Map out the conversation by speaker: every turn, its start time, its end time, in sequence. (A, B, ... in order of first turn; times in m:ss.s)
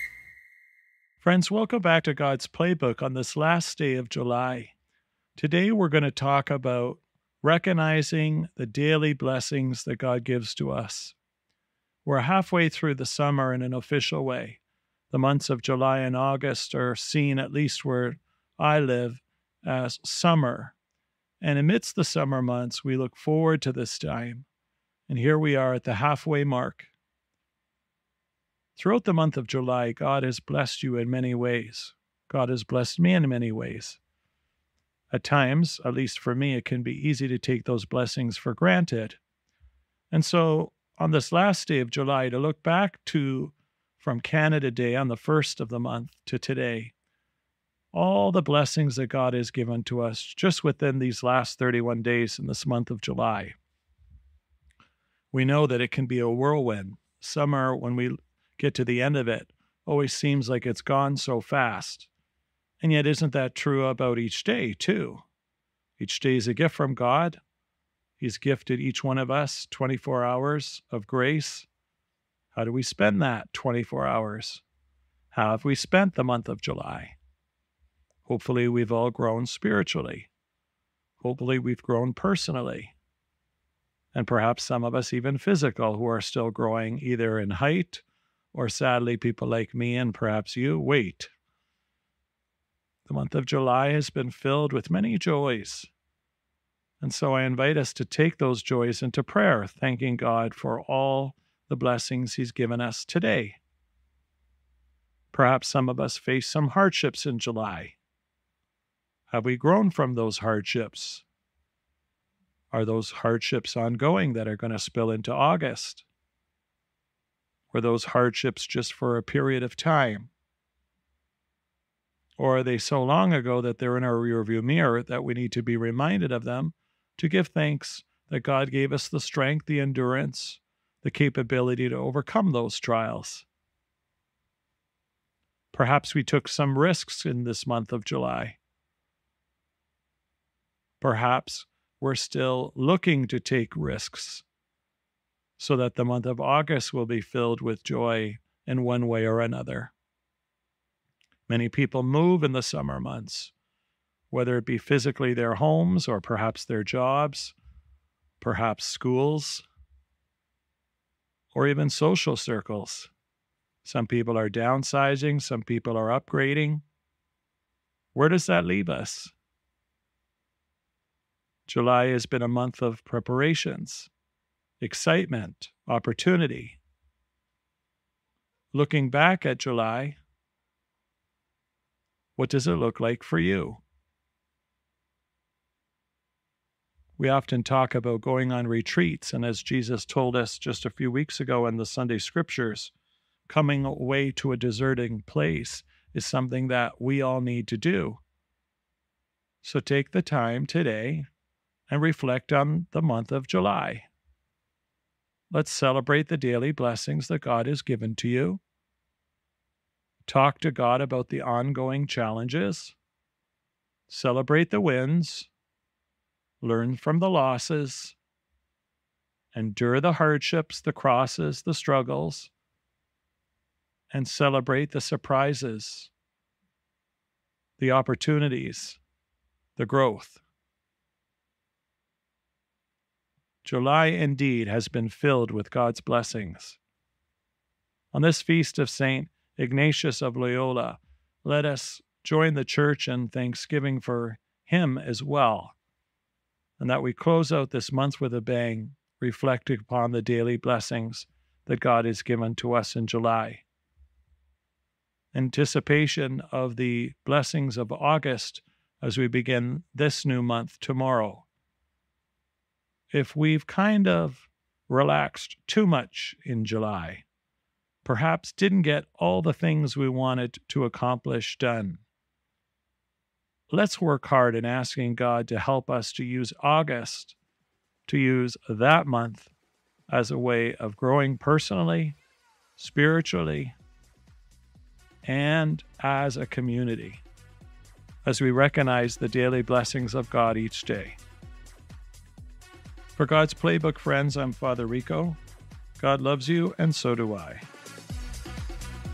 0:01.2-0:04.7 A
0:05.4-0:11.2 A
0:12.0-0:20.7 A
0:21.4-0:24.5 A
0:25.1-0:26.9 A
0:28.8-0:34.0 A
0:35.1-0:39.2 A
0:40.1-0:46.9 A
0:47.9-0:53.6 A
0:55.3-1:02.1 A
1:02.8-1:05.2 A
1:06.0-1:07.4 A
1:08.2-1:11.7 A
1:12.5-1:14.6 A
1:15.3-1:17.2 A
1:18.2-1:20.3 A
1:21.2-1:22.9 A
1:24.1-1:31.3 A
1:33.0-1:35.9 A
1:37.0-1:43.6 A
1:45.3-1:48.0 A
1:49.3-1:51.2 A
1:52.7-1:56.0 A
1:57.7-2:00.3 A
2:02.4-2:13.4 A
2:15.7-2:18.6 A
2:21.0-2:24.4 A
2:25.6-2:29.9 A
2:31.5-2:33.5 A
2:34.3-2:37.5 A
2:38.4-2:39.6 A
2:41.5-2:43.1 A
2:43.8-2:46.8 A
2:48.1-2:49.3 A
2:51.7-2:54.1 A
2:54.8-2:56.8 A
2:58.7-3:00.2 A
3:02.4-3:03.8 A
3:07.2-3:12.9 A
3:13.5-3:18.2 A
3:19.6-3:21.3 A
3:21.9-3:24.1 A
3:25.5-3:28.6 A
3:30.2-3:33.0 A
3:34.1-3:35.5 A
3:36.6-3:38.2 A
3:39.5-3:42.5 A
3:44.1-3:46.1 A
3:47.8-3:49.0 A
3:49.8-3:50.4 A
3:53.6-3:56.8 A
3:58.1-4:05.8 A
4:06.8-4:13.6 A
4:15.3-4:21.4 A
4:23.1-4:27.2 A
4:28.0-4:32.0 A
4:33.7-4:37.4 A
4:38.1-4:39.5 A
4:40.1-4:42.2 A
4:42.8-4:43.8 A
4:45.2-4:47.2 A
4:48.2-4:51.2 A
4:53.1-4:55.4 A
4:56.0-4:57.6 A